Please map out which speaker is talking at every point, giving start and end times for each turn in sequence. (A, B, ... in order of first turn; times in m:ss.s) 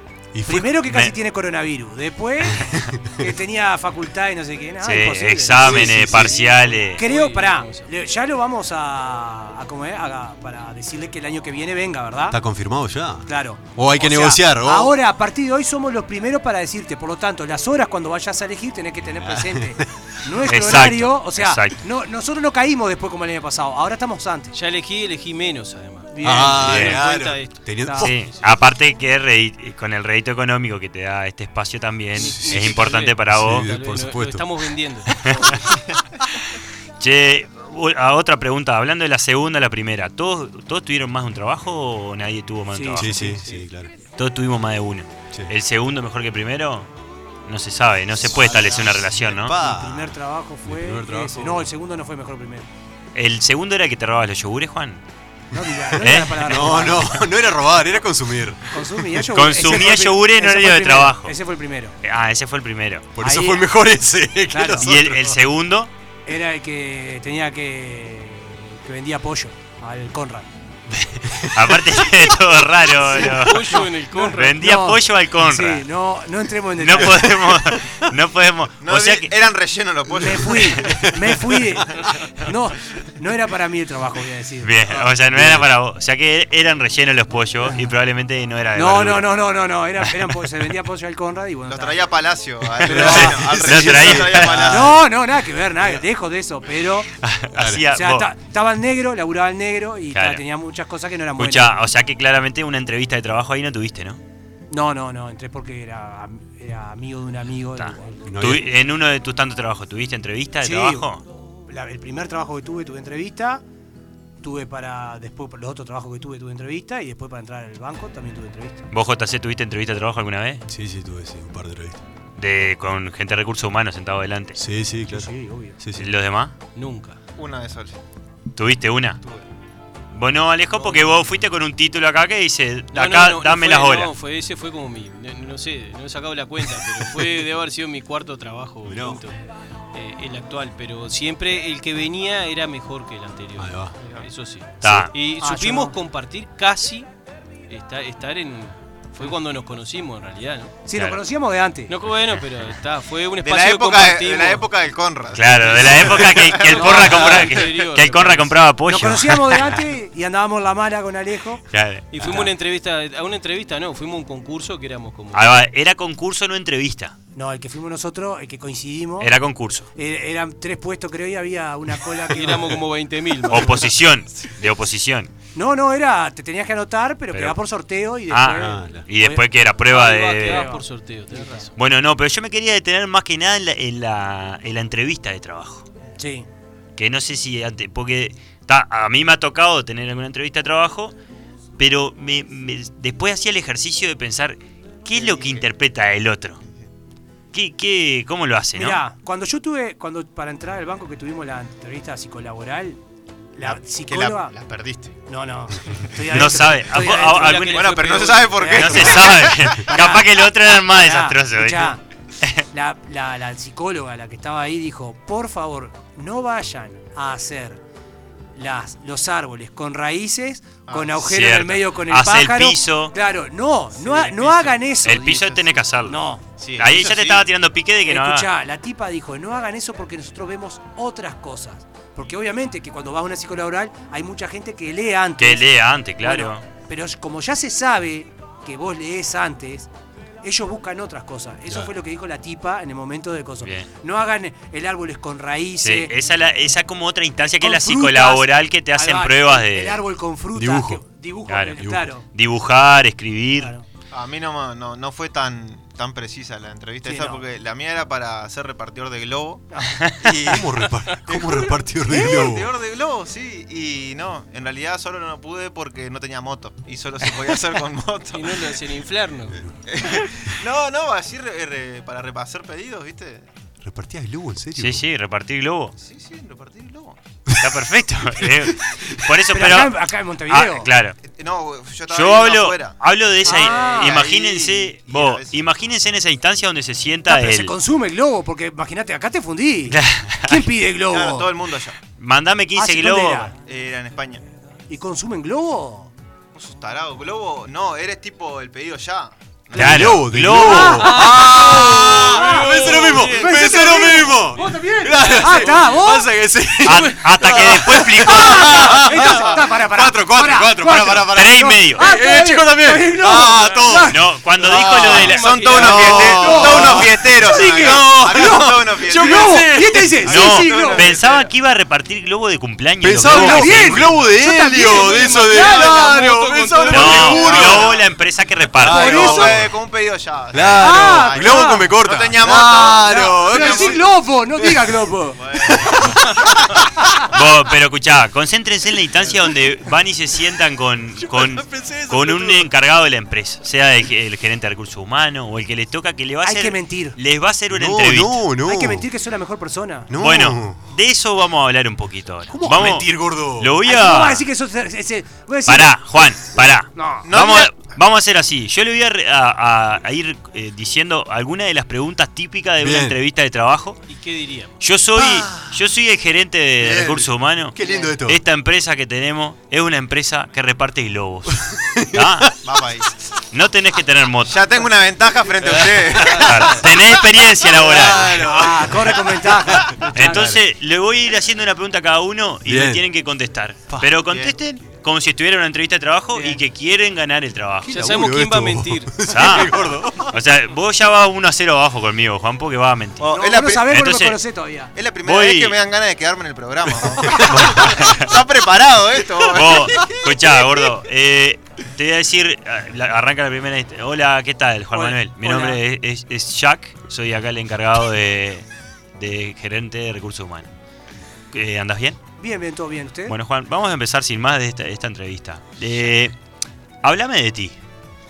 0:00.3-0:00.7 A
0:00.5-0:06.1 B
0:02.6-0:03.0 A
0:04.8-0:07.0 C
0:05.6-0:06.3 A
0:06.0-0:07.9 D
0:07.0-0:12.4 B
0:12.3-0:15.0 A
0:13.3-0:24.5 B
0:19.1-0:19.9 A
0:20.5-0:21.8 C
0:24.5-0:27.6 D
0:26.1-0:26.9 B
0:26.2-0:28.2 A
0:27.8-0:28.1 B
0:28.0-0:33.7 C
0:32.2-0:32.6 A
0:32.2-0:35.7 D
0:33.3-0:34.5 A
0:37.0-0:43.4 C
0:42.7-0:43.2 B
0:43.0-0:43.9 A
0:44.2-0:46.9 C
0:47.5-0:49.6 C
0:48.2-0:51.7 A
0:49.6-0:52.7 B
0:53.2-0:55.0 C
0:55.5-0:57.2 B
0:56.0-0:56.9 C
0:56.4-0:58.8 A
0:58.7-1:01.9 B
0:59.3-1:01.3 C
1:02.0-1:03.1 C
1:03.2-1:05.4 A
1:03.2-1:03.6 B
1:04.5-1:04.9 B
1:04.8-1:05.9 C
1:06.3-1:10.5 B
1:11.0-1:13.8 C
1:13.1-1:14.6 D
1:13.2-1:17.3 B
1:14.4-1:15.9 C
1:16.8-1:19.3 C
1:18.8-1:20.9 E
1:20.2-1:25.1 B
1:24.6-1:29.3 C
1:25.3-1:25.7 A
1:28.7-1:32.0 B
1:31.7-1:35.1 E
1:32.8-1:35.0 A
1:32.8-1:33.4 B
1:32.9-1:34.7 C
1:34.7-1:37.1 B
1:37.2-1:38.3 C
1:37.6-1:37.8 A
1:37.9-1:41.8 B
1:40.1-1:40.4 C
1:41.4-1:44.2 C
1:44.7-1:48.2 B
1:47.8-1:51.2 C
1:48.3-1:48.6 A
1:50.6-1:51.1 B
1:51.7-1:53.6 B
1:54.4-1:58.8 B
1:58.9-2:00.6 C
2:00.7-2:02.0 A
2:02.4-2:04.6 C
2:04.6-2:06.1 A
2:05.1-2:05.8 B
2:06.0-2:06.5 C
2:06.8-2:07.2 D
2:07.4-2:08.0 E
2:08.6-2:09.2 C
2:10.1-2:14.1 C
2:10.8-2:11.2 D
2:12.9-2:19.4 D
2:18.9-2:19.2 A
2:19.9-2:27.1 D
2:23.6-2:24.0 A
2:24.8-2:25.1 C
2:25.4-2:26.0 B
2:27.7-2:30.7 D
2:30.9-2:31.9 B
2:31.9-2:34.7 D
2:33.4-2:37.5 E
2:35.3-2:39.8 C
2:35.7-2:38.6 D
2:36.8-2:37.3 B
2:38.9-2:41.6 B
2:41.7-2:42.5 C
2:42.1-2:45.6 D
2:45.3-2:47.2 C
2:47.4-2:49.3 B
2:49.2-2:49.9 C
2:50.0-2:52.8 B
2:52.3-2:53.9 D
2:53.5-2:55.3 C
2:55.6-2:59.4 B
2:58.3-3:00.7 C
2:58.5-2:59.1 A
2:59.9-3:01.7 D
3:00.4-3:01.7 B
3:01.8-3:05.9 C
3:06.2-3:06.5 B
3:07.0-3:11.1 C
3:11.8-3:16.6 C
3:15.1-3:15.7 E
3:17.5-3:19.0 C
3:18.8-3:23.0 B
3:23.6-3:24.5 B
3:23.6-3:25.2 E
3:25.3-3:27.8 B
3:26.3-3:27.9 C
3:27.1-3:28.6 D
3:27.7-3:29.9 E
3:28.5-3:29.3 B
3:28.7-3:32.6 C
3:29.9-3:30.3 B
3:31.0-3:32.0 B
3:32.7-3:37.8 B
3:38.6-3:46.4 B
3:40.9-3:41.2 E
3:41.2-3:43.1 C
3:44.4-3:46.2 C
3:46.6-3:47.5 E
3:46.8-3:48.5 C
3:48.1-3:55.6 B
3:55.4-3:56.6 C
3:56.2-3:59.9 B
4:00.4-4:06.1 B
4:05.8-4:10.0 C
4:07.5-4:12.2 B
4:10.6-4:11.0 A
4:11.5-4:13.7 C
4:13.6-4:13.8 B
4:14.1-4:19.7 E
4:17.0-4:17.4 B
4:19.7-4:20.0 B
4:20.2-4:20.7 E
4:20.5-4:22.7 A
4:22.1-4:28.7 E
4:28.3-4:29.6 D
4:29.9-4:33.5 E
4:33.8-4:35.1 A
4:34.8-4:36.0 C
4:36.0-4:37.2 E
4:37.6-4:41.2 C
4:38.4-4:39.2 A
4:39.5-4:40.9 B
4:41.2-4:45.6 E
4:42.1-4:47.7 C
4:43.5-4:44.2 B
4:47.3-4:51.5 B
4:49.9-4:50.7 C
4:51.1-4:52.0 E
4:52.2-4:53.5 C
4:52.8-4:53.5 B
4:53.6-4:54.4 E
4:54.9-4:56.1 B
4:56.6-5:00.2 E
4:59.7-5:01.2 C
4:59.7-5:20.4 A
5:00.6-5:06.3 B
5:01.1-5:03.7 D
5:06.8-5:09.0 C
5:08.2-5:14.2 B
5:11.3-5:12.0 C
5:14.1-5:15.6 C
5:15.1-5:19.7 E
5:15.2-5:16.3 D
5:15.9-5:21.1 B
5:20.2-5:21.5 E
5:20.3-5:24.1 C
5:23.0-5:28.0 A
5:23.3-5:26.3 B
5:25.2-5:27.4 D
5:26.9-5:29.6 C
5:27.3-5:28.0 E
5:28.8-5:29.7 A
5:28.8-5:29.6 B
5:28.8-5:34.1 E
5:30.5-5:34.0 A
5:30.8-5:36.1 B
5:35.4-5:36.2 E
5:37.3-5:48.4 C
5:41.2-5:42.7 A
5:46.4-5:47.2 B
5:47.7-5:49.1 A
5:48.6-5:50.1 B
5:50.1-5:50.8 A
5:50.2-5:54.4 C
5:52.5-5:53.7 A
5:53.8-5:56.0 B
5:55.7-6:04.0 C
5:57.0-5:57.3 B
5:57.2-5:57.8 E
6:02.8-6:03.2 A
6:04.1-6:04.8 D
6:04.8-6:07.8 C
6:05.2-6:05.8 A
6:06.8-6:08.4 A
6:08.3-6:12.5 C
6:11.6-6:12.5 A
6:12.6-6:13.1 E
6:13.5-6:14.6 C
6:14.5-6:16.8 E
6:15.6-6:16.9 A
6:16.3-6:18.5 C
6:17.6-6:20.6 A
6:18.4-6:20.5 B
6:20.2-6:28.2 C
6:22.7-6:23.0 A
6:24.3-6:24.5 E
6:27.9-6:29.2 D
6:27.9-6:30.4 A
6:29.3-6:29.7 C
6:30.3-6:33.2 C
6:33.2-6:33.9 E
6:33.3-6:34.9 B
6:33.8-6:34.4 C
6:35.0-6:40.2 E
6:35.2-6:35.8 C
6:37.3-6:38.4 C
6:39.5-6:50.7 C
6:44.9-6:45.8 B
6:51.5-6:52.2 C
6:52.4-6:53.4 B
6:53.3-6:56.4 C
6:57.0-6:57.8 C